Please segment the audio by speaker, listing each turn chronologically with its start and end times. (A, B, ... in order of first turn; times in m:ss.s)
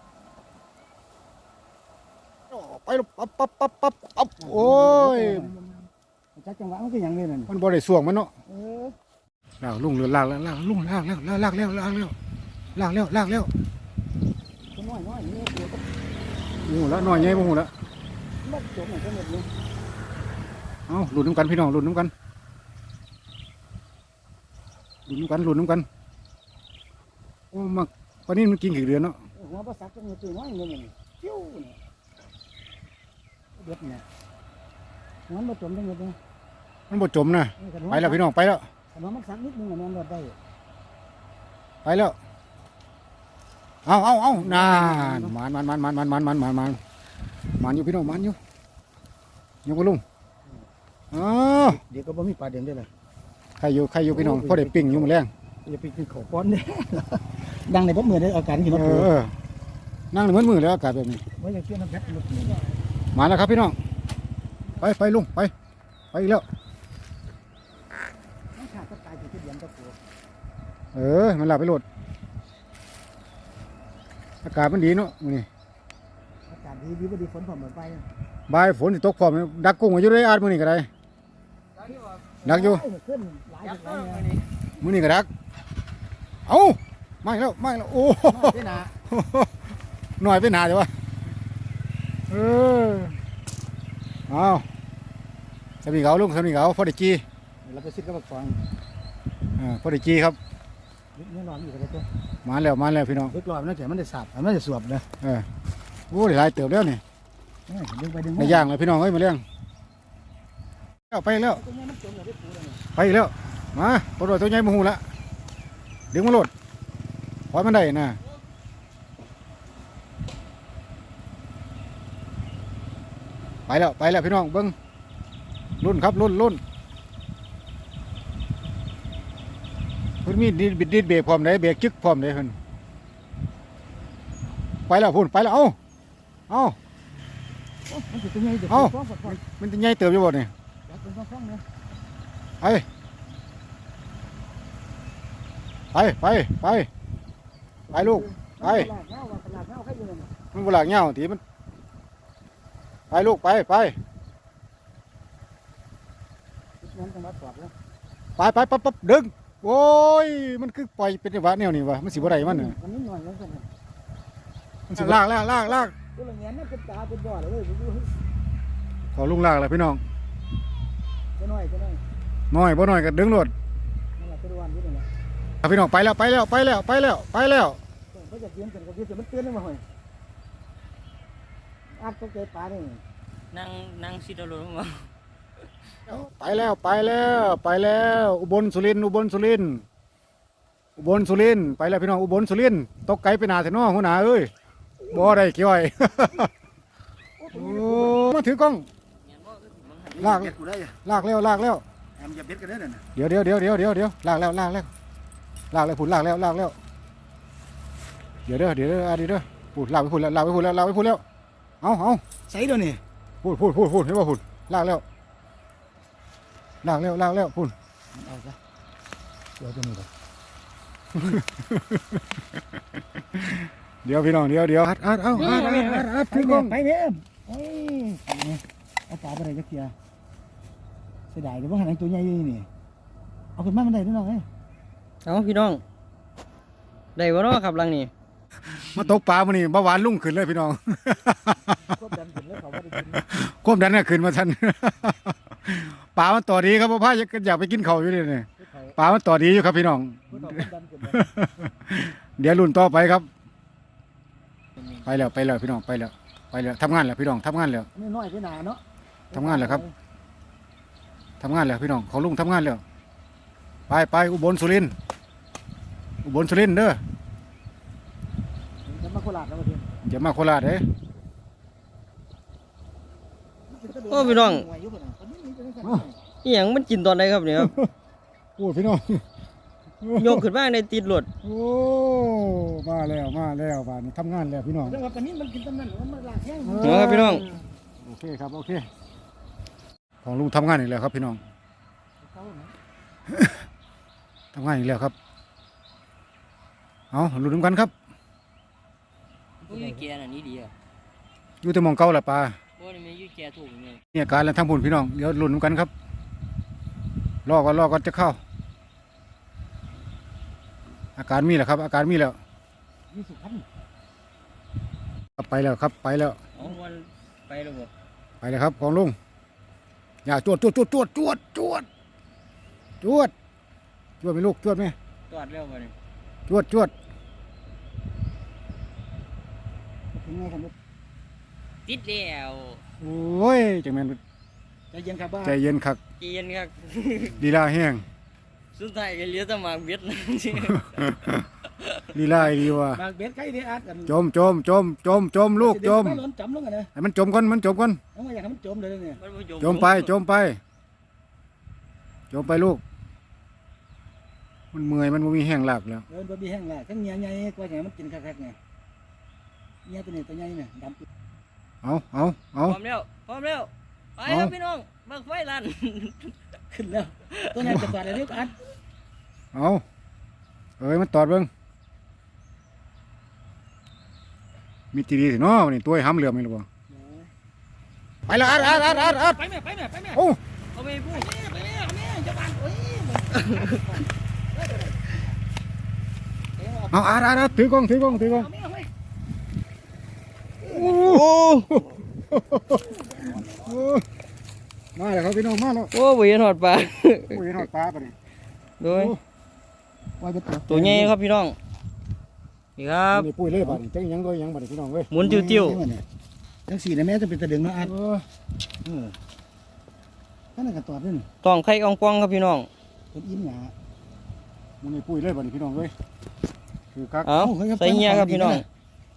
0:02.5-0:05.5 A
0:04.4-0:07.5 B
0:07.5-0:08.3 A
0:08.5-0:08.9 B
0:09.6-0:12.1 A
0:12.7-0:13.5 A
0:14.7-0:15.8 B
0:16.6-0:17.7 A
0:16.9-0:17.6 B
0:18.4-0:19.5 B
0:20.9-0:22.1 A
0:25.1-0:25.8 A
0:27.5-0:29.2 A
0:29.3-0:31.8 B
0:33.6-0:34.0 B
0:35.3-0:36.2 B
0:36.9-0:38.7 A
0:37.6-0:38.2 B
0:38.9-0:40.4 B
0:41.8-0:42.2 A
0:43.8-0:46.8 A
0:44.3-0:45.3 B
0:47.6-0:48.4 A
0:49.6-0:50.0 A
0:51.1-0:51.8 A
0:51.7-0:52.9 B
0:53.6-0:55.3 A
0:54.1-0:59.1 B
0:58.7-0:59.3 A
1:00.1-1:01.2 A
1:01.4-1:02.7 B
1:03.1-1:03.8 A
1:04.8-1:05.5 A
1:06.1-1:06.4 A
1:08.5-1:10.0 B
1:10.9-1:11.8 A
1:14.4-1:15.5 A
1:16.5-1:18.0 B
1:18.5-1:20.9 A
1:22.4-1:22.8 A
1:22.4-1:24.3 B
1:23.6-1:24.4 C
1:24.8-1:25.3 A
1:26.5-1:29.5 A
1:28.3-1:28.9 B
1:30.2-1:30.9 A
1:32.3-1:33.2 A
1:34.3-1:34.6 A
1:35.8-1:37.2 A
1:37.6-1:38.6 B
1:39.6-1:40.4 A
1:41.1-1:42.1 B
1:42.4-1:43.4 A
1:43.3-1:45.0 B
1:45.2-1:45.5 A
1:46.1-1:47.0 A
1:47.7-1:48.7 B
1:48.4-1:49.4 A
1:51.1-1:51.6 A
1:51.5-1:52.8 B
1:52.9-1:55.0 A
1:56.1-1:56.5 A
1:57.5-1:58.2 A
2:03.7-2:04.7 A
2:05.8-2:06.6 A
2:10.2-2:12.6 A
2:14.9-2:15.8 A
2:16.5-2:16.8 A
2:17.9-2:19.4 B
2:18.7-2:20.5 A
2:20.9-2:21.6 B
2:22.6-2:22.8 A
2:25.9-2:26.9 A
2:27.9-2:30.3 B
2:27.9-2:28.9 A
2:30.5-2:31.4 A
2:33.1-2:34.0 A
2:36.8-2:37.7 B
2:38.4-2:42.8 A
2:42.1-2:43.7 B
2:44.9-2:45.9 A
2:45.0-2:48.1 B
2:49.1-2:50.0 A
2:51.4-2:52.0 B
2:52.5-2:53.5 A
2:54.2-2:55.0 B
2:55.6-2:57.8 A
2:58.1-2:59.8 B
3:02.0-3:03.0 B
3:03.5-3:05.1 C
3:06.1-3:09.8 A
3:11.0-3:14.5 A
3:15.0-3:15.4 B
3:15.1-3:16.5 A
3:17.4-3:18.3 B
3:17.5-3:18.8 A
3:19.3-3:20.0 C
3:19.9-3:21.0 B
3:20.2-3:21.8 A
3:22.2-3:23.0 B
3:23.1-3:24.9 A
3:25.7-3:26.8 A
3:28.5-3:31.2 A
3:31.8-3:32.2 A
3:32.5-3:33.0 B
3:33.4-3:35.0 A
3:36.8-3:37.7 A
3:38.1-3:38.6 B
3:39.6-3:40.1 B
3:41.2-3:42.2 A
3:43.3-3:46.7 A
3:45.3-3:49.9 B
3:45.3-3:46.1 C
3:51.3-3:52.7 B
3:53.6-3:54.4 B
3:55.2-3:55.8 C
3:57.2-3:58.1 C
3:58.8-4:01.8 A
4:01.8-4:03.2 B
4:03.1-4:13.3 A
4:08.6-4:09.0 B
4:10.3-4:11.3 B
4:15.0-4:17.9 A
4:17.9-4:19.9 B
4:19.3-4:19.8 A
4:21.4-4:22.8 A
4:23.9-4:24.9 A
4:26.2-4:27.0 A
4:28.8-4:29.8 B
4:30.0-4:30.8 A
4:33.7-4:36.2 B
4:34.0-4:34.7 C
4:36.4-4:37.7 C
4:37.6-4:37.9 A
4:38.6-4:39.2 A
4:40.0-4:40.4 A
4:40.2-4:41.3 C
4:41.4-4:45.0 A
4:44.8-4:47.1 B
4:46.6-4:48.9 A
4:46.8-4:47.5 C
4:50.2-4:51.4 A
4:52.2-4:52.7 B
4:54.5-4:55.1 A
4:57.1-4:57.9 A
4:59.6-5:00.0 B
4:59.7-5:00.7 C
5:01.6-5:02.6 A
5:02.8-5:04.0 C
5:04.1-5:05.9 A
5:07.4-5:08.4 A
5:11.2-5:12.4 A
5:13.1-5:13.6 B
5:15.4-5:16.4 A
5:16.5-5:17.9 C
5:18.4-5:19.1 A
5:20.2-5:21.8 A
5:23.0-5:23.3 A
5:24.2-5:24.9 A
5:25.3-5:25.9 C
5:26.5-5:26.9 A
5:30.1-5:30.7 B
5:31.8-5:32.8 C
5:33.0-5:34.2 A
5:34.9-5:35.6 B
5:35.4-5:36.0 A
5:36.2-5:37.4 C
5:37.4-5:38.0 A
5:38.7-5:41.2 C
5:40.8-5:41.4 A
5:41.8-5:42.1 C
5:42.1-5:43.0 A
5:42.3-5:44.2 B
5:44.0-5:46.2 A
5:45.6-5:46.9 B
5:46.9-5:48.0 A
5:48.1-5:49.2 B
5:49.2-5:50.1 C
5:49.6-5:50.6 A
5:52.3-5:52.8 A
5:54.7-5:56.0 A
5:56.1-5:58.6 B
5:59.8-6:01.0 B
6:01.8-6:02.8 A
6:02.6-6:06.4 C
6:04.2-6:04.5 A
6:06.7-6:08.6 B
6:07.3-6:07.9 C
6:09.5-6:09.8 A
6:10.8-6:11.5 A
6:14.9-6:16.7 A
6:16.9-6:17.3 B
6:18.3-6:19.4 A
6:18.3-6:20.2 B
6:20.1-6:20.4 A
6:20.7-6:21.3 C
6:21.1-6:25.4 B
6:23.4-6:24.0 C
6:26.6-6:28.9 B
6:26.9-6:28.5 A
6:30.6-6:30.9 B
6:30.6-6:31.3 A
6:30.7-6:32.0 C
6:32.3-6:32.9 A
6:32.7-6:33.8 B
6:33.5-6:34.0 A
6:35.0-6:35.9 A
6:35.9-6:37.6 C
6:37.3-6:38.1 A
6:38.8-6:39.1 C
6:38.9-6:39.2 A
6:40.2-6:41.1 B
6:40.7-6:41.6 C
6:42.8-6:43.3 C
6:43.1-6:45.1 A
6:45.1-6:45.8 C
6:45.2-6:46.0 B
6:46.7-6:47.9 B
6:47.8-6:48.2 A
6:48.8-6:49.2 B
6:50.5-6:51.3 B
6:51.4-6:52.7 C
6:53.1-6:53.7 B
6:54.8-6:55.9 A
6:56.9-6:57.3 A
6:57.2-6:58.6 C
6:57.3-6:58.6 B